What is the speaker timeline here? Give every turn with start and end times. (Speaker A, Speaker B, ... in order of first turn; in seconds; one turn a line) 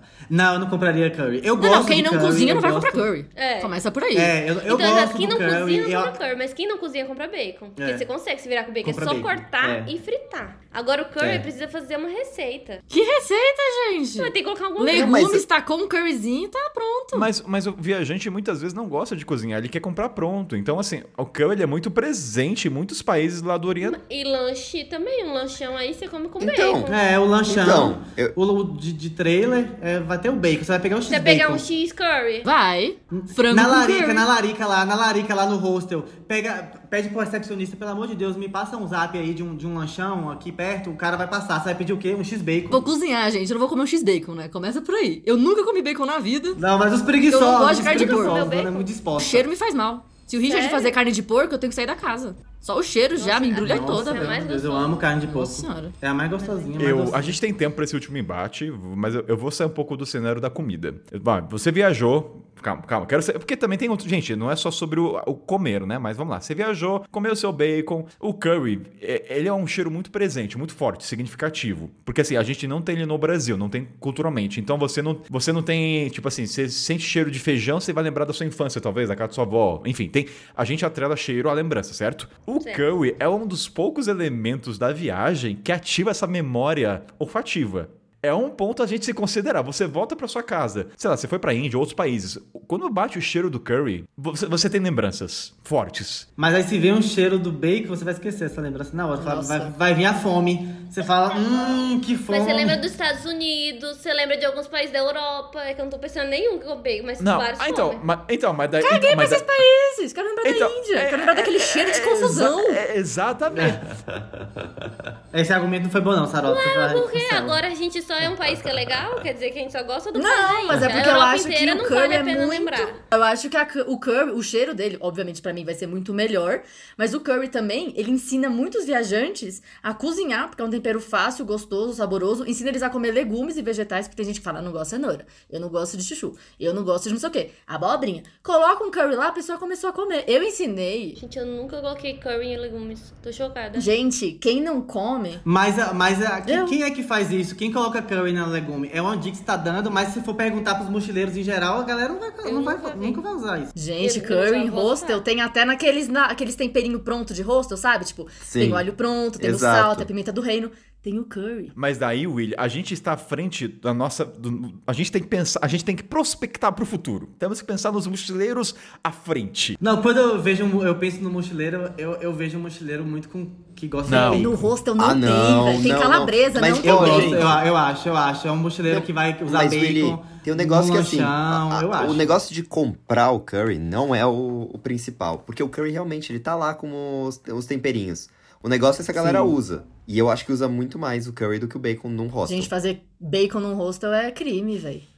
Speaker A: 0.3-3.0
Speaker B: 1.6-4.3
Speaker C: 3.4-3.8
Speaker A: 4.1-6.2
Speaker C: 4.6-12.8
Speaker A: 7.8-8.1
Speaker A: 8.8-9.9
Speaker A: 11.2-11.4
Speaker B: 12.9-17.3
Speaker C: 14.2-15.2
Speaker D: 14.9-15.4
Speaker E: 17.1-24.0
Speaker C: 23.8-27.0
Speaker D: 26.4-26.9
Speaker A: 26.9-31.6
Speaker D: 27.5-28.3
Speaker C: 31.1-32.5
Speaker B: 32.4-34.3
Speaker A: 33.1-42.9
Speaker B: 42.7-46.6
Speaker A: 46.6-49.5
Speaker B: 47.3-48.5
Speaker C: 47.7-48.9
Speaker B: 49.2-54.4
Speaker C: 50.4-50.9
Speaker C: 53.2-55.1
Speaker A: 53.6-57.4
Speaker B: 55.2-55.9
Speaker C: 56.4-56.7
Speaker E: 56.8-96.3
Speaker A: 96.4-102.8
Speaker B: 99.2-99.7
Speaker C: 102.3-108.0
Speaker E: 107.2-109.4
Speaker B: 108.8-112.8
Speaker E: 110.4-113.8
Speaker A: 113.5-113.8
Speaker A: 115.3-117.6
Speaker C: 116.4-123.0
Speaker B: 120.2-141.2
Speaker C: 141.2-143.9
Speaker B: 143.8-145.4
Speaker A: 145.4-153.7
Speaker B: 146.4-146.8
Speaker C: 152.4-153.2
Speaker B: 153.7-161.7
Speaker C: 154.0-155.2
Speaker D: 158.4-158.9
Speaker D: 159.4-160.1
Speaker E: 161.8-169.8
Speaker A: 169.8-174.6
Speaker E: 174.1-174.5
Speaker B: 174.3-177.4
Speaker D: 175.0-177.6
Speaker A: 176.8-182.3
Speaker D: 178.8-192.7
Speaker A: 189.1-189.6
Speaker B: 192.4-195.1